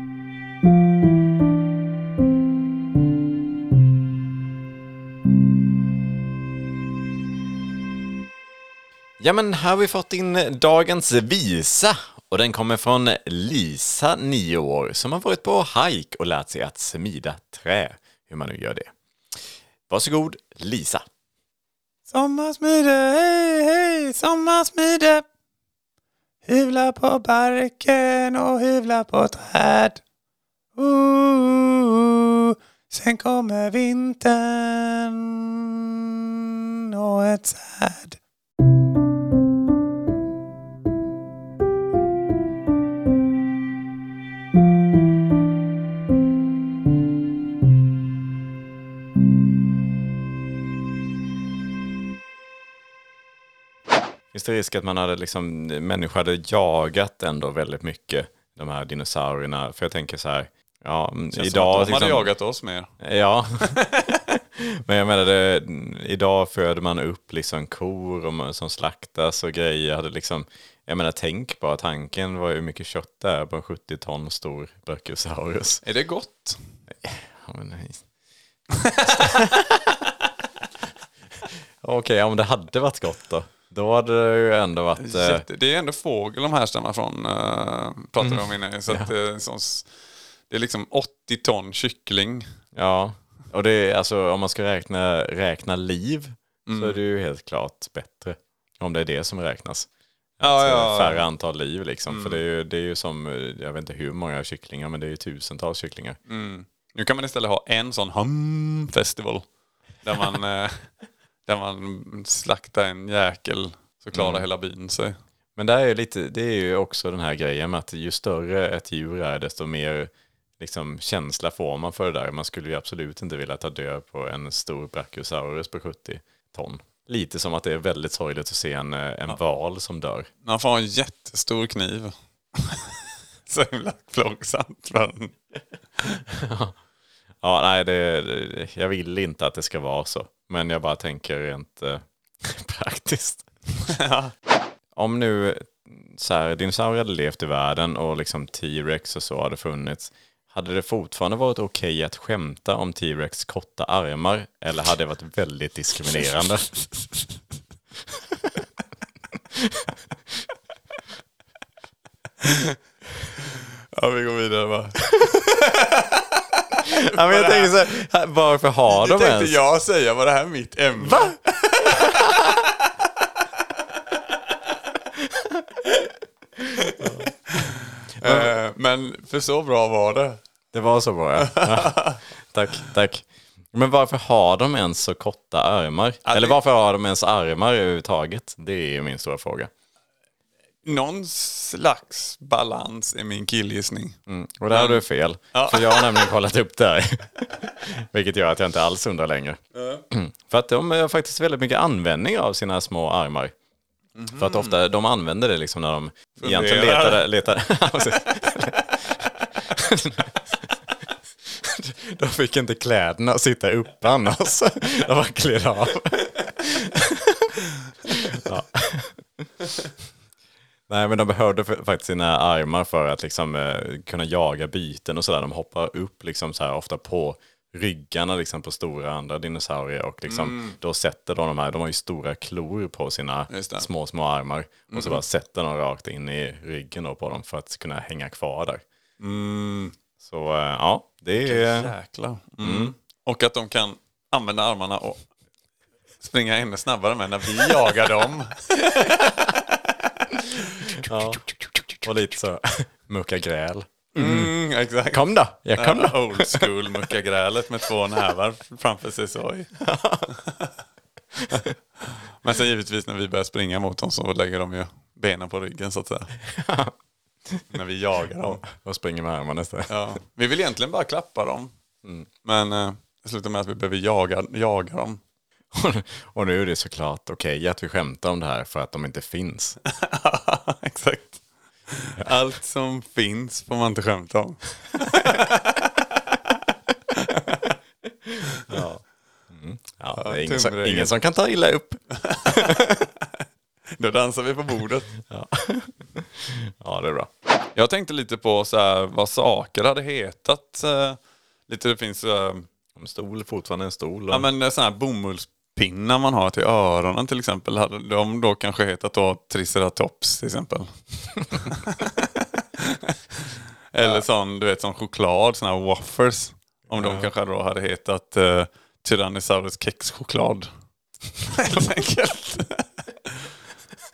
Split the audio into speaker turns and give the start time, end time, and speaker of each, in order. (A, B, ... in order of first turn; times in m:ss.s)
0:09.2-0:18.9 A
0:19.9-0:21.0 A
0:22.1-0:25.2 B
0:26.4-0:30.0 B
0:30.8-0:38.2 B
0:54.3-1:02.3 A
1:01.3-1:02.9 B
1:03.0-1:03.7 A
1:03.6-1:04.2 B
1:04.6-1:15.8 A
1:15.8-1:16.6 B
1:16.9-1:18.0 A
1:18.8-1:19.4 B
1:19.1-1:19.8 A
1:21.8-1:25.4 A
1:25.0-1:29.9 B
1:28.2-1:29.1 A
1:30.5-1:32.4 B
1:32.7-1:39.9 A
1:36.6-1:37.0 B
1:40.4-1:46.2 A
1:40.4-1:41.2 B
1:42.1-1:42.4 B
1:46.3-1:49.4 B
1:50.0-1:50.8 B
1:51.4-1:55.2 B
1:54.1-1:54.4 A
1:55.6-2:10.3 A
2:10.4-2:15.3 B
2:16.3-2:16.8 A
2:17.4-2:23.4 A
2:23.8-2:24.3 B
2:25.0-2:36.7 A
2:39.5-2:39.9 A
2:42.4-2:42.8 B
2:43.4-2:47.8 B
2:46.8-2:49.6 A
2:48.9-2:52.6 B
2:51.0-2:52.3 A
2:56.7-3:00.4 B
2:57.0-2:57.3 A
2:58.2-2:58.5 A
3:00.7-3:09.7 A
3:01.4-3:02.2 B
3:06.2-3:06.6 B
3:10.8-3:14.2 B
3:14.3-3:19.6 A
3:14.7-3:15.0 B
3:15.5-3:16.3 B
3:19.7-3:20.0 B
3:20.1-3:23.5 A
3:24.2-3:24.8 B
3:24.3-3:30.4 A
3:26.4-3:27.2 B
3:31.5-3:39.5 A
3:40.9-3:58.8 A
3:50.3-3:50.8 B
3:53.5-3:53.9 B
3:54.9-3:55.2 B
3:59.2-4:00.0 B
4:00.2-4:01.9 A
4:01.4-4:05.2 B
4:02.6-4:02.9 A
4:06.2-4:11.9 B
4:10.9-4:11.5 A
4:12.0-4:14.5 A
4:14.2-4:15.2 B
4:15.1-4:16.7 A
4:15.8-4:19.7 B
4:19.8-4:20.3 A
4:20.3-4:20.7 B
4:22.4-4:26.3 B
4:26.4-4:26.9 A
4:27.7-4:28.6 B
4:28.4-4:30.0 A
4:29.9-4:31.7 B
4:32.4-4:35.2 B
4:35.7-4:39.8 A
4:39.8-4:47.7 B
4:48.2-4:52.9 A
4:50.2-4:51.1 B
4:52.2-4:53.4 B
4:54.0-4:55.1 B
4:55.2-4:57.3 A
4:57.7-5:02.7 B
5:03.0-5:04.5 A
5:04.3-5:10.9 B
5:11.5-5:20.7 B
5:16.9-5:17.3 A
5:21.4-5:23.5 B